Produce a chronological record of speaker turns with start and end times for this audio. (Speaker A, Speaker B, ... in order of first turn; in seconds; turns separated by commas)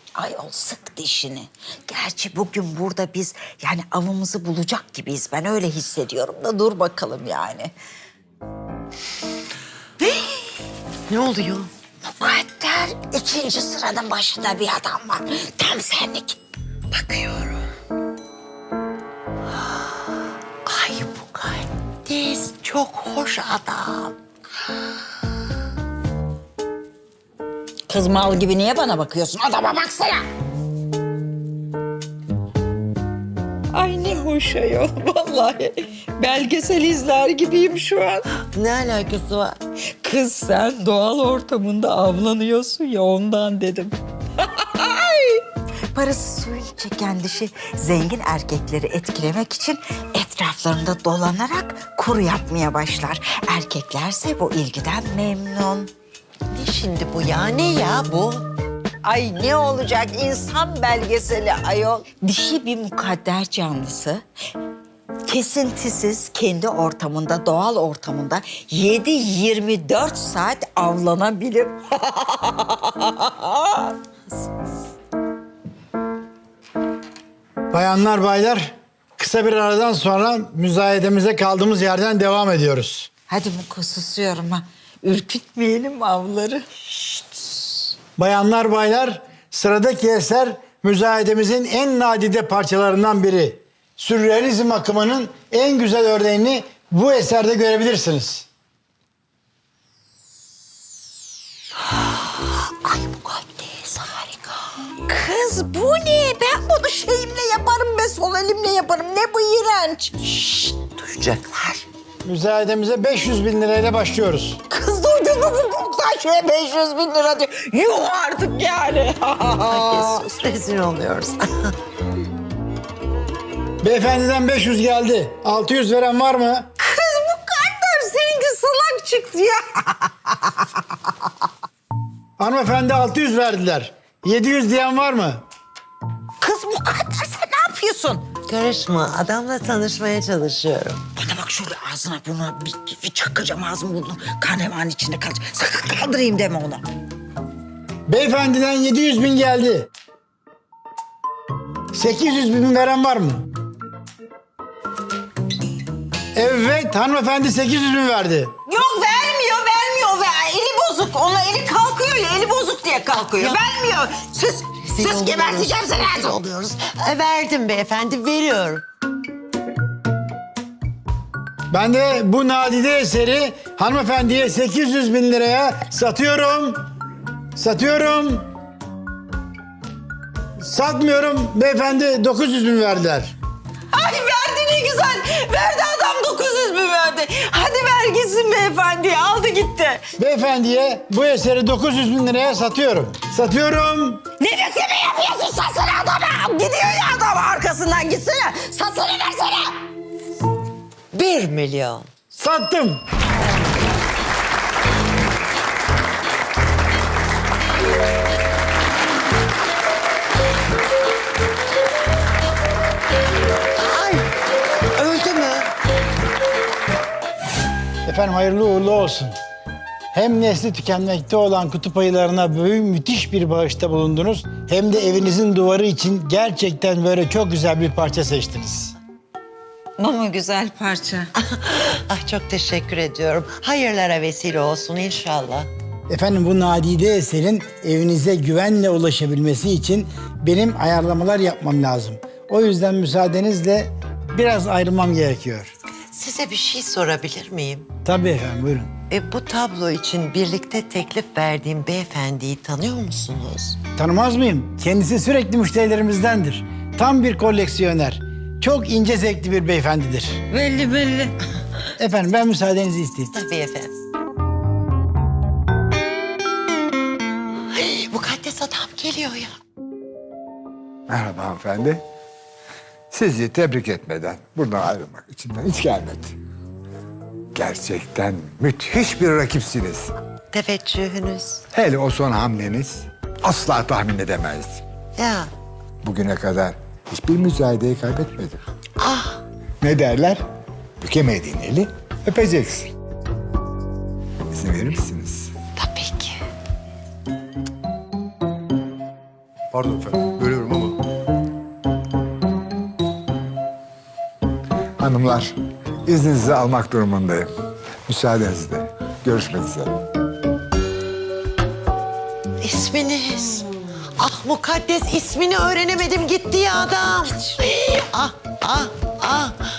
Speaker A: 0.2-7.7, Speaker A: 10.0-10.4, Speaker B: 11.1-11.7, Speaker A: 12.0-16.4, Speaker B: 16.9-17.7, Speaker B: 20.6-24.1, Speaker A: 27.9-30.3, Speaker A: 33.7-38.3, Speaker B: 38.5-39.6, Speaker A: 39.9-55.9, Speaker B: 56.5-58.5, Speaker A: 59.0-64.2, Speaker A: 65.3-74.0, Speaker C: 77.7-83.1, Speaker A: 83.3-87.8, Speaker C: 88.2-98.5, Speaker A: 102.3-110.2, Speaker B: 110.2-111.9, Speaker C: 112.2-114.6, Speaker A: 114.7-120.2, Speaker B: 119.4-121.8, Speaker C: 123.8-126.7, Speaker A: 126.8-130.8, Speaker C: 132.4-135.4, Speaker A: 136.4-138.3, Speaker B: 138.5-141.1, Speaker A: 141.2-146.8, Speaker C: 148.1-149.9, Speaker C: 151.9-153.5, Speaker C: 156.3-158.5, Speaker A: 158.7-166.4, Speaker B: 163.1-163.6, Speaker B: 164.8-168.8, Speaker C: 171.7-176.9, Speaker C: 177.6-178.5, Speaker C: 180.6-183.3, Speaker A: 183.9-190.1, Speaker C: 190.2-194.3, Speaker A: 194.3-199.8, Speaker B: 201.1-202.1, Speaker C: 202.3-203.0, Speaker B: 213.8-214.3, Speaker B: 214.9-215.7, Speaker C: 218.1-219.4, Speaker C: 220.1-228.9, Speaker A: 230.0-231.3, Speaker B: 231.4-235.7, Speaker C: 236.1-245.7, Speaker B: 246.1-247.9, Speaker C: 248.0-248.9, Speaker B: 249.1-253.8, Speaker C: 254.0-260.4, Speaker A: 260.5-261.4, Speaker C: 262.0-263.3, Speaker B: 263.3-264.0, Speaker B: 267.7-269.5, Speaker D: 271.1-272.0, Speaker D: 273.1-276.4, Speaker D: 277.5-280.1, Speaker B: 280.5-281.6, Speaker D: 281.7-284.8, Speaker B: 285.2-285.5, Speaker D: 286.0-288.6, Speaker B: 289.0-289.4, Speaker D: 289.8-290.4, Speaker D: 291.0-292.9, Speaker D: 294.5-295.5, Speaker B: 295.8-296.4, Speaker D: 299.7-301.0, Speaker D: 305.0-307.5, Speaker D: 308.1-310.0, Speaker B: 312.6-313.7, Speaker B: 314.2-319.6